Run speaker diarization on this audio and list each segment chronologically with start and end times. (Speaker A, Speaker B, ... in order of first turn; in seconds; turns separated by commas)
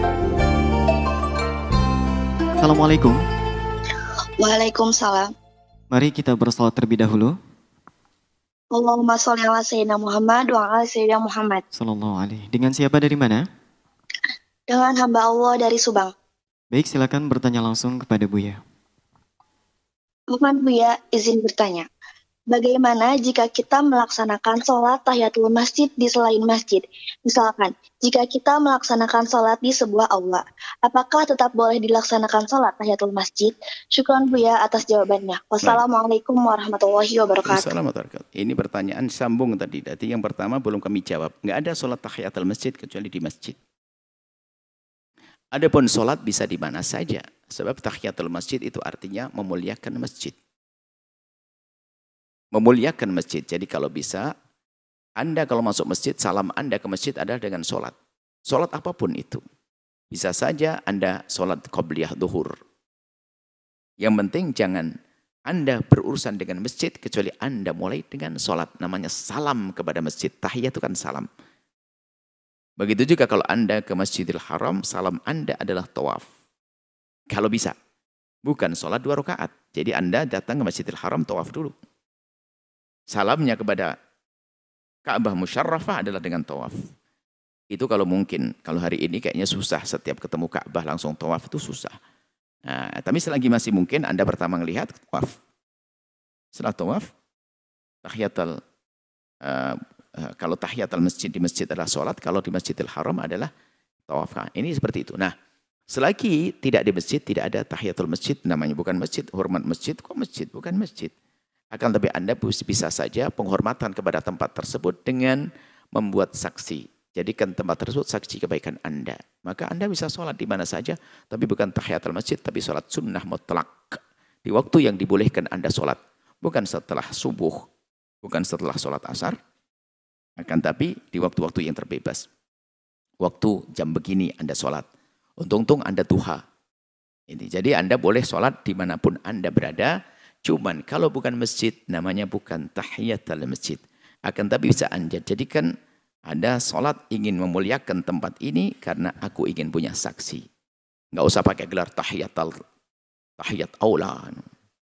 Speaker A: 2.6-3.2, Speaker B: 4.4-5.3, Speaker A: 5.9-7.3, Speaker B: 8.7-11.6, Speaker A: 11.7-13.4, Speaker B: 14.7-16.1, Speaker A: 16.7-18.6, Speaker B: 20.3-21.9, Speaker B: 22.5-37.7, Speaker C: 37.5-43.6, Speaker C: 45.5-50.3, Speaker C: 52.5-54.3, Speaker C: 55.2-57.9, Speaker C: 58.5-59.4, Speaker C: 60.1-62.5, Speaker C: 64.0-64.9, Speaker C: 65.5-71.3, Speaker C: 72.8-76.2, Speaker C: 77.3-77.8, Speaker C: 78.5-81.7, Speaker C: 83.1-83.9, Speaker C: 85.1-86.8, Speaker C: 87.7-92.0, Speaker C: 92.7-95.3, Speaker C: 96.5-97.1, Speaker C: 98.0-98.6, Speaker C: 99.4-103.5, Speaker C: 104.1-105.3, Speaker C: 105.9-111.1, Speaker C: 111.7-115.4, Speaker C: 115.9-127.7, Speaker C: 128.2-129.4, Speaker C: 130.4-132.2, Speaker C: 133.2-134.8, Speaker C: 135.4-136.4, Speaker C: 137.3-139.9, Speaker C: 140.5-145.7, Speaker C: 146.3-150.4, Speaker C: 151.2-152.6, Speaker C: 153.4-154.5